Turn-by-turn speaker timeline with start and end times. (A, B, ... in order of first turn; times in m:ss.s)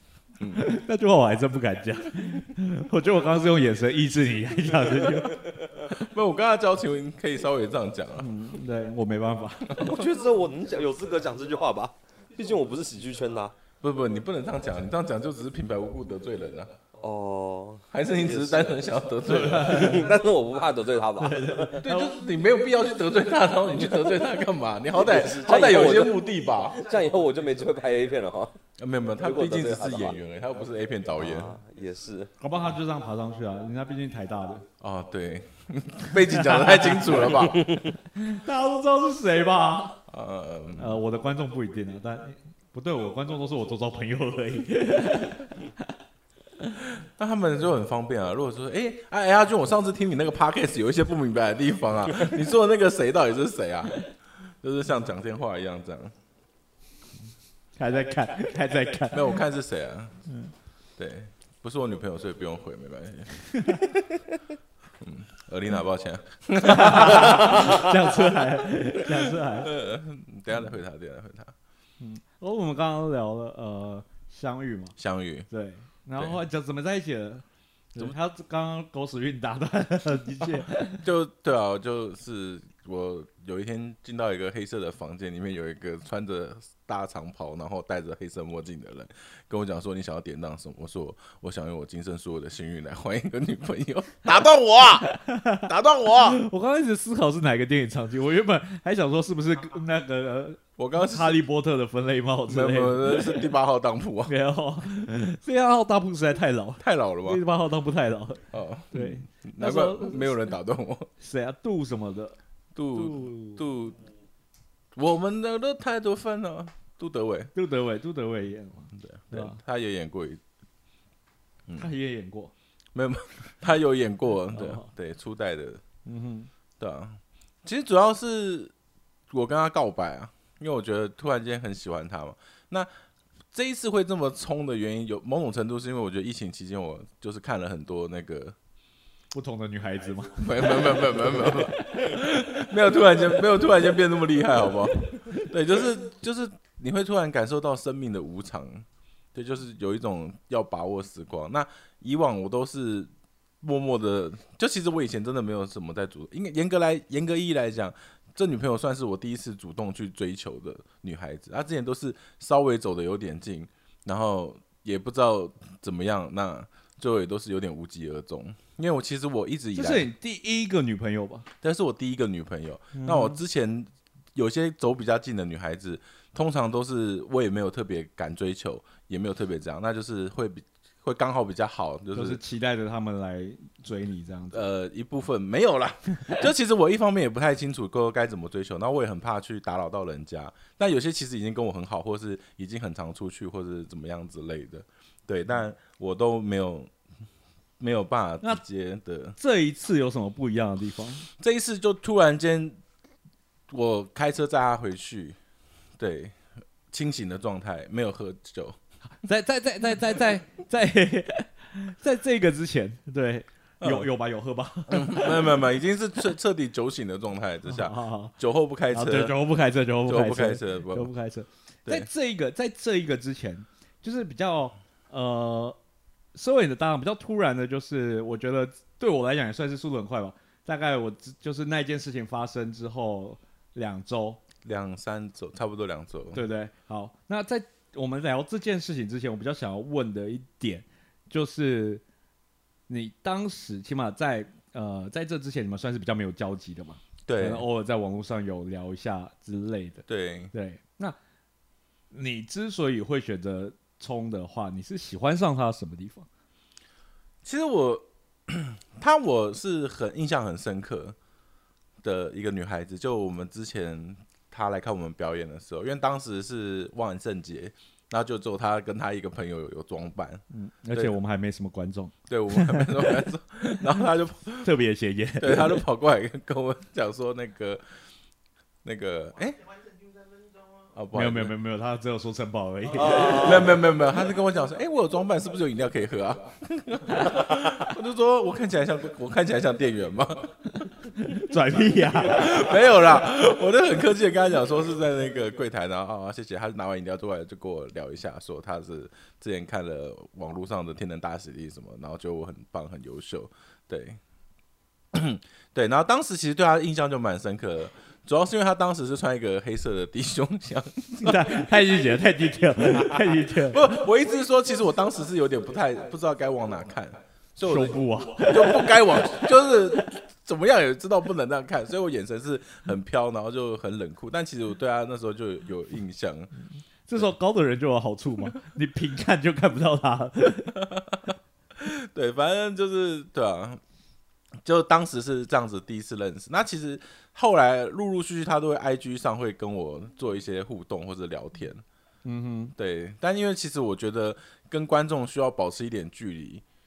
0:00.4-0:00.7 A
0:00.6-0:05.4 B
0:05.8-0:08.3 A
0:08.2-0:09.8 B
0:09.8-0:13.5 C
0:13.8-0:16.7 A
0:17.0-0:18.7 C
0:17.9-0:20.0 A
0:19.2-0:20.1 B
0:19.6-0:21.8 C
0:21.2-0:22.2 B
0:21.8-0:26.8 A
0:25.0-0:28.6 C
0:28.8-0:31.6 A
0:29.2-0:30.2 C
0:31.2-0:32.3 C
0:32.4-0:34.6 B
0:34.8-0:37.7 A
0:36.4-0:37.2 B
0:38.2-0:40.0 B
0:40.1-0:41.0 A
0:40.8-0:45.5 B
0:46.9-0:54.1 A
0:54.6-0:56.1 A
0:57.8-0:59.4 B
0:59.1-1:00.2 A
1:01.0-1:04.0 A
1:05.0-1:07.8 A
1:06.6-1:09.7 B
1:09.1-1:11.5 A
1:12.0-1:15.0 B
1:15.0-1:15.5 A
1:15.5-1:21.0 B
1:21.0-1:36.4 A
1:35.1-1:35.6 B
1:36.3-1:43.5 B
1:40.8-1:41.4 A
1:42.5-1:44.3 A
1:44.3-1:50.4 B
1:46.8-1:47.4 A
1:48.5-1:51.1 A
1:51.2-1:52.4 B
1:52.8-1:54.0 A
1:52.9-1:53.6 B
1:55.0-1:57.5 A
1:57.6-1:59.6 B
1:59.0-2:00.4 A
2:01.8-2:02.5 B
2:02.9-2:05.8 A
2:04.5-2:04.9 B
2:06.1-2:06.5 B
2:06.8-2:08.7 A
2:09.3-2:12.9 A
2:13.5-2:18.6 A
2:19.3-2:22.1 B
2:20.4-2:33.1 A
2:33.6-2:50.1 A
2:49.7-2:51.5 B
2:51.6-3:02.4 A
2:52.9-2:53.4 B
3:02.1-3:04.7 B
3:04.5-3:16.9 A
3:17.8-3:19.4 A
3:19.4-3:21.3 B
3:21.4-3:22.8 A
3:23.7-3:25.4 A
3:26.0-3:26.4 A
3:26.9-3:28.8 A
3:29.2-3:35.6 B
3:33.8-3:34.1 A
3:34.9-3:39.4 A
3:37.7-3:38.3 B
3:38.9-3:45.8 B
3:40.1-3:41.1 A
3:46.4-3:54.4 B
3:54.6-3:56.4 A
3:56.3-4:02.0 B
4:02.9-4:11.2 B
4:07.3-4:07.7 A
4:10.1-4:10.5 A
4:12.1-4:16.3 B
4:17.4-4:21.2 A
4:22.0-4:31.1 A
4:30.5-4:33.2 B
4:32.3-4:34.7 A
4:34.6-4:35.8 B
4:35.4-4:37.8 A
4:38.8-4:39.6 A
4:40.9-4:41.5 A
4:41.1-4:43.6 B
4:43.1-4:43.4 C
4:43.3-4:50.5 A
4:51.2-4:52.5 B
4:52.2-5:04.2 A
5:05.1-5:11.6 A
5:11.2-5:13.8 B
5:13.5-5:26.5 A
5:17.6-5:19.4 B
5:27.1-5:30.8 B
5:30.8-5:31.2 A
5:31.8-5:33.8 A
5:34.6-5:41.8 A
5:42.2-5:42.7 B
5:42.8-5:46.6 A